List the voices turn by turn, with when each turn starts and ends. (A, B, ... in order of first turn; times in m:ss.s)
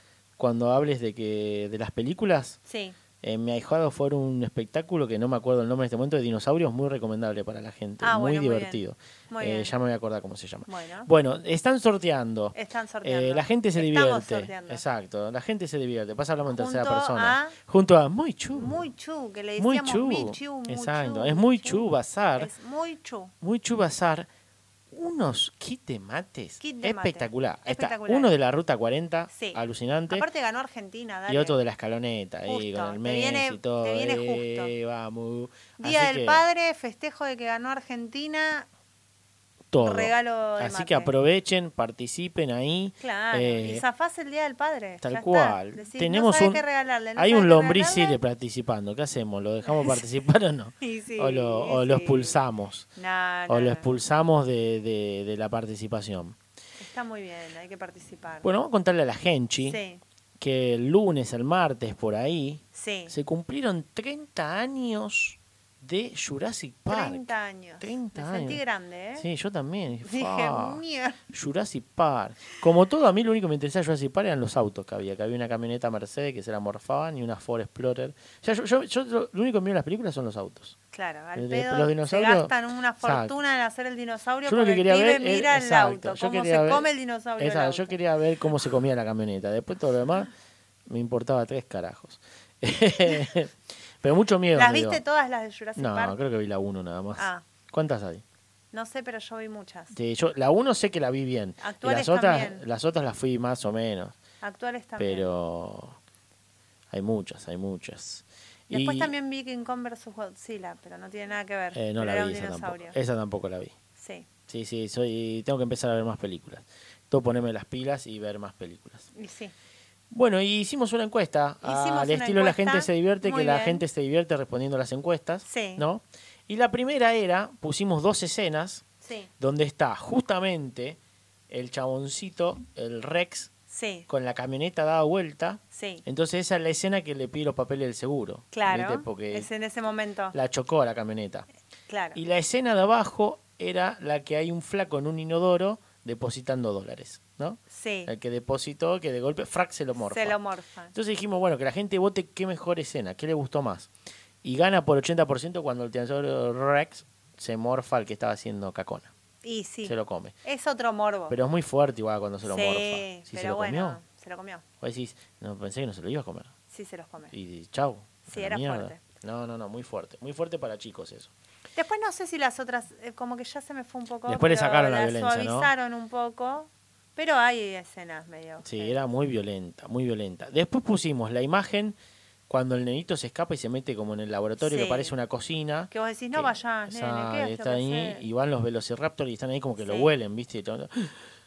0:00.4-0:02.6 A
0:02.7-0:03.0 B
0:03.2-0:18.9 A
0:08.0-0:09.7 B
0:10.7-0:11.1 B
0:12.5-0:14.8 B
0:16.5-0:17.6 B
0:18.5-0:23.3 B
0:19.6-0:22.5 A
0:23.4-0:24.3 A
0:24.9-0:30.2 A
0:26.6-0:28.3 B
0:29.3-0:31.6 B
0:31.3-0:36.4 A
0:32.5-0:34.7 B
0:35.8-0:38.7 B
0:39.7-0:43.8 A
0:39.8-0:41.1 B
0:43.0-0:48.2 B
0:45.0-0:46.6 A
0:47.2-0:52.9 A
0:49.6-0:50.0 B
0:50.8-0:52.4 B
0:53.0-0:53.9 B
0:53.5-0:56.4 A
0:56.8-0:58.4 B
0:58.4-0:59.8 A
0:59.6-1:00.0 B
1:00.4-1:08.6 A
1:02.7-1:03.1 B
1:06.9-1:09.2 B
1:09.2-1:20.8 A
1:10.0-1:11.2 B
1:20.9-1:28.0 B
1:21.3-1:23.3 A
1:24.4-1:30.3 A
1:30.9-1:35.0 A
1:34.5-1:36.2 B
1:35.8-1:38.2 A
1:37.2-1:37.4 B
1:38.7-1:39.9 B
1:39.9-1:44.2 A
1:41.6-1:42.6 B
1:44.4-1:45.3 B
1:45.0-1:46.0 A
1:46.9-1:49.1 A
1:48.7-1:53.0 B
1:51.7-1:53.7 A
1:54.0-1:54.3 B
1:54.5-1:59.1 A
1:59.1-1:59.5 B
2:00.1-2:08.8 A
2:01.6-2:03.8 B
2:05.4-2:05.8 B
2:09.0-2:09.3 B
2:09.4-2:11.0 A
2:11.5-2:13.5 A
2:13.7-2:14.1 B
2:14.1-2:19.5 A
2:15.7-2:16.0 B
2:18.5-2:20.4 B
2:20.3-2:21.5 A
2:21.9-2:22.2 B
2:22.1-2:30.4 A
2:27.7-2:28.1 B
2:30.0-2:30.9 B
2:30.9-2:33.9 A
2:34.4-2:39.1 A
2:39.4-2:41.4 B
2:39.8-2:40.3 A
2:41.3-2:44.0 A
2:42.4-2:44.6 B
2:44.8-2:46.5 A
2:46.7-2:47.3 B
2:47.3-2:51.3 A
2:48.3-2:49.0 B
2:51.7-2:59.0 B
2:54.2-2:55.7 A
2:58.6-3:02.0 A
3:02.5-3:11.1 A
3:04.6-3:05.1 B
3:05.9-3:08.2 B
3:09.8-3:10.1 B